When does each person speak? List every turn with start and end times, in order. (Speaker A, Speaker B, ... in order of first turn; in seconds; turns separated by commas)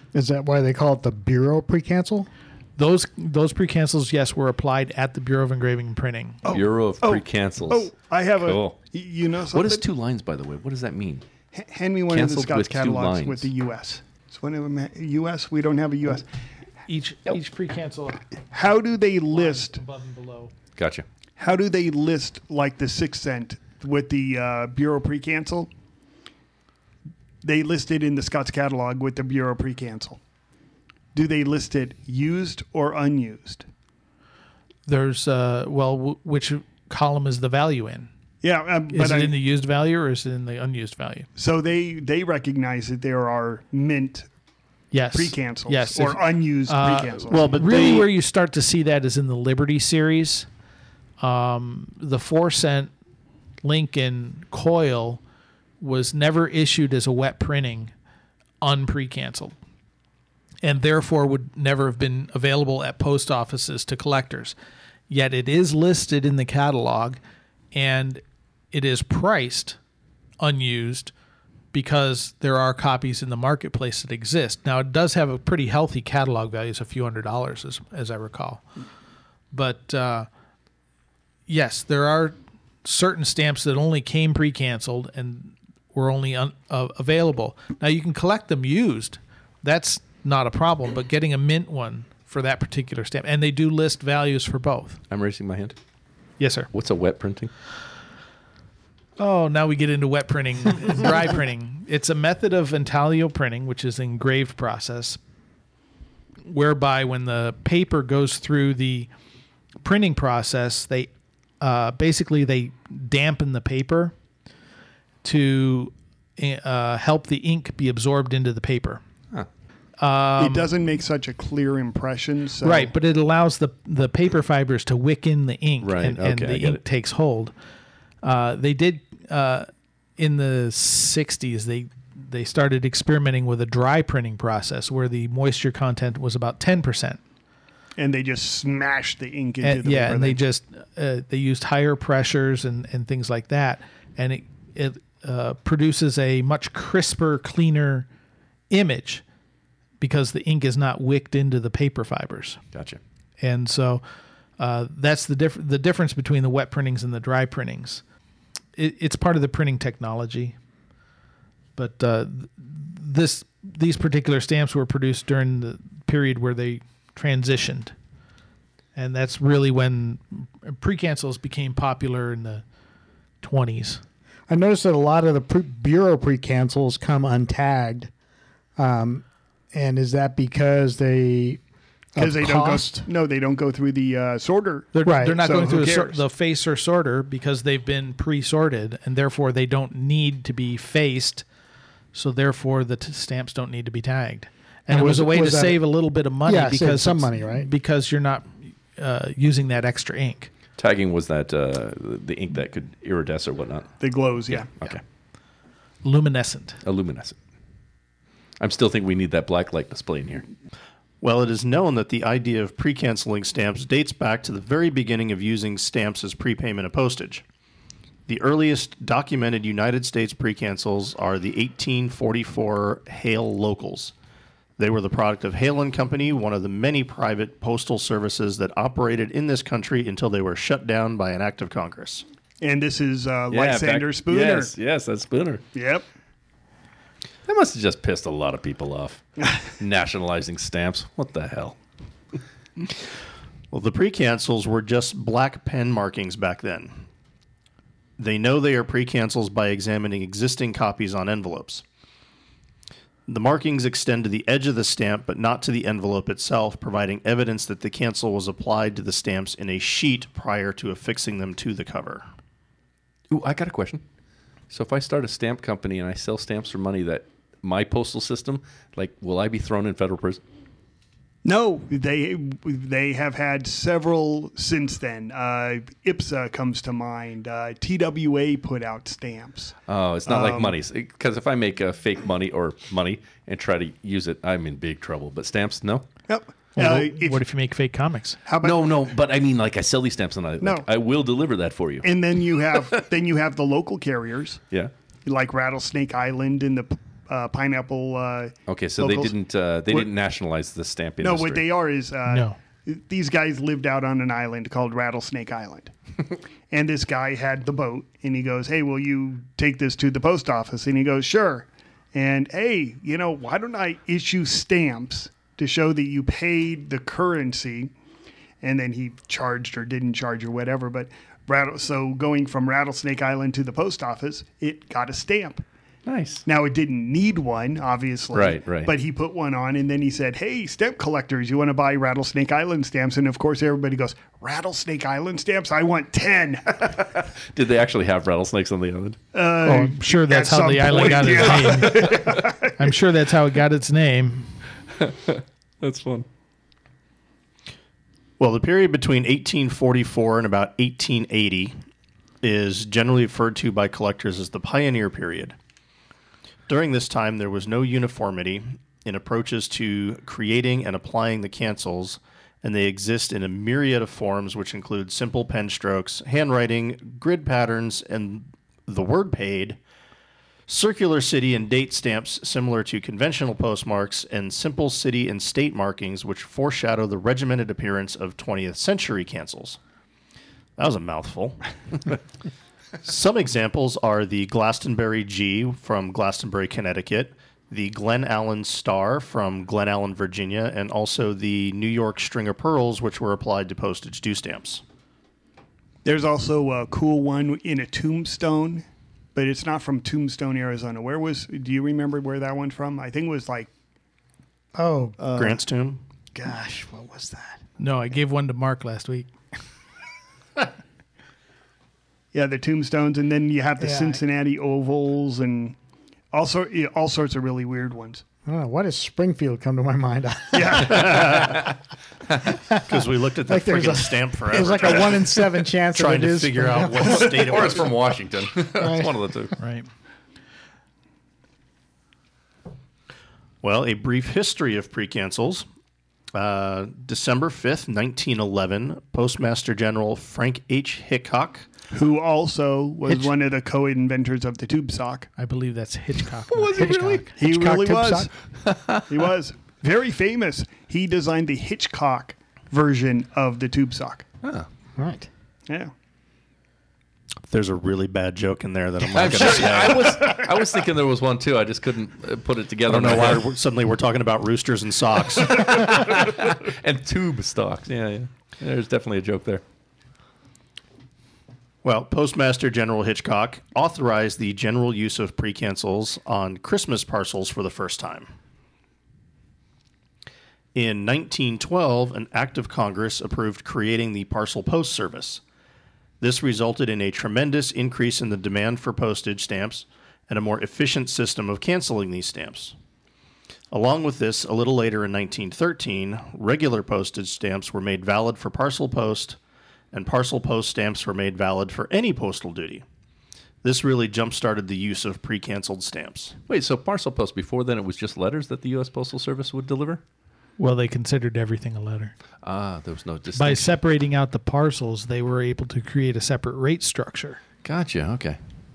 Speaker A: 0.1-2.3, Speaker B: 2.8-6.4, Speaker C: 6.4-9.8, Speaker D: 6.5-7.9, Speaker D: 8.4-8.8, Speaker D: 9.5-11.2, Speaker C: 11.5-16.2, Speaker D: 12.1-13.5, Speaker B: 16.9-18.2, Speaker C: 18.5-19.8, Speaker B: 19.3-20.5, Speaker D: 20.8-21.0, Speaker C: 21.4-25.7, Speaker C: 27.4-30.2, Speaker C: 31.1-33.6, Speaker B: 34.9-38.1, Speaker C: 38.4-39.3, Speaker B: 38.9-41.3, Speaker C: 41.4-44.3, Speaker B: 44.9-50.5, Speaker C: 45.1-47.6, Speaker E: 47.3-48.1, Speaker B: 51.2-52.9, Speaker B: 53.6-55.2, Speaker B: 55.8-57.9, Speaker B: 58.6-59.5, Speaker B: 60.6-64.5, Speaker B: 65.1-67.2, Speaker B: 67.7-69.8, Speaker B: 70.4-71.1, Speaker B: 71.7-78.6, Speaker B: 79.5-80.3, Speaker B: 81.5-95.0, Speaker D: 95.1-95.8, Speaker B: 96.4-96.7, Speaker D: 96.7-97.5, Speaker B: 99.2-105.2, Speaker B: 106.5-109.1, Speaker B: 109.8-111.1, Speaker B: 111.6-114.1, Speaker B: 115.2-119.0, Speaker B: 120.0-120.7, Speaker C: 120.4-122.9, Speaker B: 122.6-127.5, Speaker D: 125.8-126.8, Speaker B: 128.2-137.2, Speaker C: 138.0-140.4, Speaker B: 139.6-148.1, Speaker B: 148.7-149.2, Speaker B: 150.0-152.6, Speaker D: 152.7-153.0, Speaker B: 153.4-154.0, Speaker B: 154.6-158.0, Speaker B: 158.8-160.5, Speaker B: 161.8-167.9, Speaker B: 168.9-172.6, Speaker B: 173.4-174.0, Speaker A: 174.5-178.1, Speaker A: 178.8-181.6, Speaker A: 182.1-183.1, Speaker C: 182.2-186.2, Speaker B: 184.9-191.4, Speaker A: 185.0-185.4, Speaker B: 192.1-200.5, Speaker A: 194.9-195.8, Speaker A: 196.4-197.7, Speaker D: 200.8-203.9, Speaker C: 204.0-204.7, Speaker D: 204.7-205.0, Speaker B: 206.0-206.8, Speaker D: 206.8-207.4, Speaker D: 208.6-210.4, Speaker E: 211.2-217.4, Speaker E: 218.3-224.1, Speaker E: 224.8-232.2, Speaker C: 232.6-234.7, Speaker D: 233.5-235.6, Speaker C: 235.7-236.1, Speaker D: 237.4-241.8, Speaker E: 243.7-247.0, Speaker E: 248.2-251.8, Speaker E: 253.3-262.2, Speaker D: 263.3-264.0, Speaker D: 264.7-270.4, Speaker C: 271.4-279.7, Speaker D: 279.9-286.1, Speaker C: 280.3-280.7, Speaker C: 286.3-287.4, Speaker B: 286.8-288.4, Speaker C: 288.4-288.8, Speaker D: 288.6-292.1, Speaker C: 290.6-290.9, Speaker C: 292.0-294.6, Speaker C: 295.2-299.3, Speaker D: 298.7-301.6, Speaker C: 301.2-305.9, Speaker B: 302.3-302.6, Speaker C: 306.7-317.9, Speaker C: 318.6-325.6, Speaker D: 326.1-326.4, Speaker C: 326.4-336.9, Speaker D: 328.3-328.9, Speaker D: 337.5-339.2, Speaker C: 339.3-342.9, Speaker B: 339.6-342.2, Speaker D: 340.9-342.3, Speaker B: 342.8-344.5, Speaker D: 345.0-346.2, Speaker E: 348.4-351.7, Speaker E: 352.4-355.5, Speaker E: 356.7-369.8, Speaker E: 370.7-379.8, Speaker E: 380.8-381.6, Speaker E: 383.0-394.8, Speaker C: 396.0-403.7, Speaker A: 404.7-405.2, Speaker C: 405.2-405.6, Speaker E: 405.3-406.0, Speaker A: 406.3-407.6, Speaker B: 407.8-409.3, Speaker C: 412.3-415.8, Speaker A: 413.8-414.2, Speaker C: 416.3-418.2, Speaker A: 418.4-421.6, Speaker C: 420.5-421.4, Speaker E: 420.8-421.6, Speaker E: 422.8-427.9, Speaker A: 423.4-427.4, Speaker D: 427.0-429.5, Speaker A: 428.8-429.2, Speaker B: 429.6-429.9, Speaker E: 433.6-435.6, Speaker E: 436.3-441.7, Speaker C: 441.9-445.3, Speaker B: 445.4-447.3, Speaker D: 446.5-447.2, Speaker A: 446.7-448.3, Speaker C: 447.4-448.3, Speaker D: 448.7-449.0, Speaker C: 449.1-454.2, Speaker D: 454.4-454.7, Speaker A: 455.0-455.3, Speaker E: 457.5-460.3, Speaker D: 459.1-463.5, Speaker E: 462.9-465.9, Speaker D: 465.4-469.6, Speaker E: 471.8-478.3, Speaker E: 480.7-485.4, Speaker E: 486.2-492.7, Speaker E: 493.7-499.4, Speaker E: 499.9-502.8, Speaker E: 503.6-506.3, Speaker D: 506.5-510.0, Speaker B: 510.6-512.1, Speaker D: 512.4-513.8, Speaker B: 513.3-517.4, Speaker D: 517.6-518.4